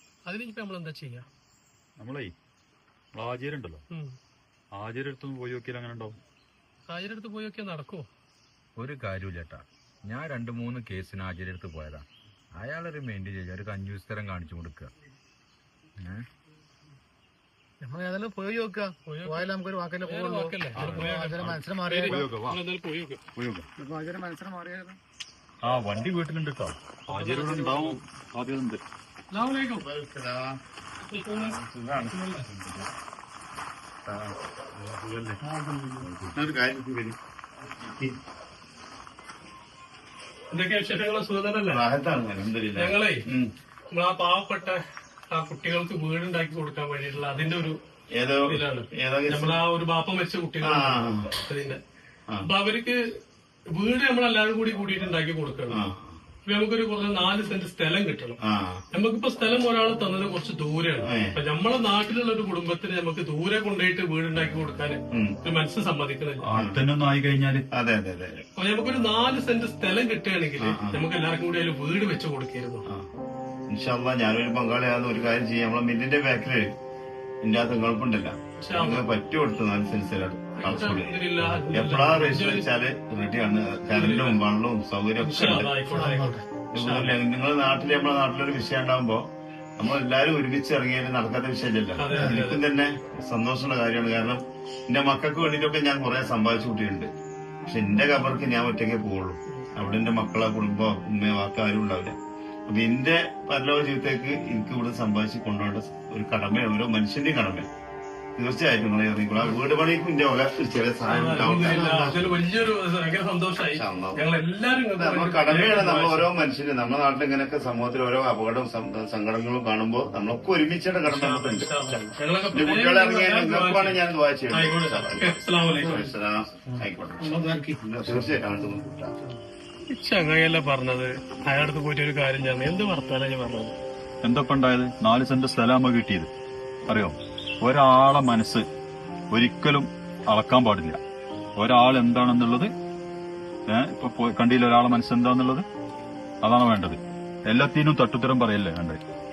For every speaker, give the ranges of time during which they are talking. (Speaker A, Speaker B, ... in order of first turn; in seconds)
Speaker A: 0.3-1.3, 3.9-4.2, 6.9-8.1, 19.1-19.5, 20.1-23.2, 27.1-27.9, 29.3-29.9, 31.0-31.6, 32.1-32.5, 40.5-41.8, 42.8-43.2, 43.9-47.8, 48.5-51.8, 52.5-53.0, 53.7-55.8, 56.5-58.4, 58.9-66.5, 68.6-72.9, 78.6-79.1, 80.6-82.7, 83.9-84.4, 85.2-87.2, 92.0-92.6, 111.1-116.3, 121.1-124.0, 124.5-126.0, 129.9-133.8
Speaker B: 2.0-2.3, 3.2-3.8, 4.8-6.2, 20.7-22.6, 23.4-23.7, 25.6-28.8, 66.4-67.6, 134.2-136.3, 136.9-138.7, 139.3-141.0, 141.6-142.7, 143.7-145.7, 146.4-149.0
Speaker C: 8.8-14.9, 16.0-16.3
Speaker D: 17.8-22.2, 23.8-25.0, 35.5-36.1, 85.9-86.4, 127.3-127.8
Speaker E: 29.7-30.6, 31.3-32.8, 34.1-35.4, 36.2-37.2, 37.8-38.2, 41.7-43.5, 48.2-49.6, 50.6-51.3, 55.7-56.2, 58.5-58.8, 61.0-61.4, 66.5-66.8, 67.7-68.4, 70.6-71.0, 73.7-76.6, 77.4-85.7, 86.7-89.2, 89.8-97.1, 97.7-102.2, 102.7-107.7, 108.4-112.4, 113.6-114.2, 115.0-122.0, 122.5-127.2, 127.8-129.1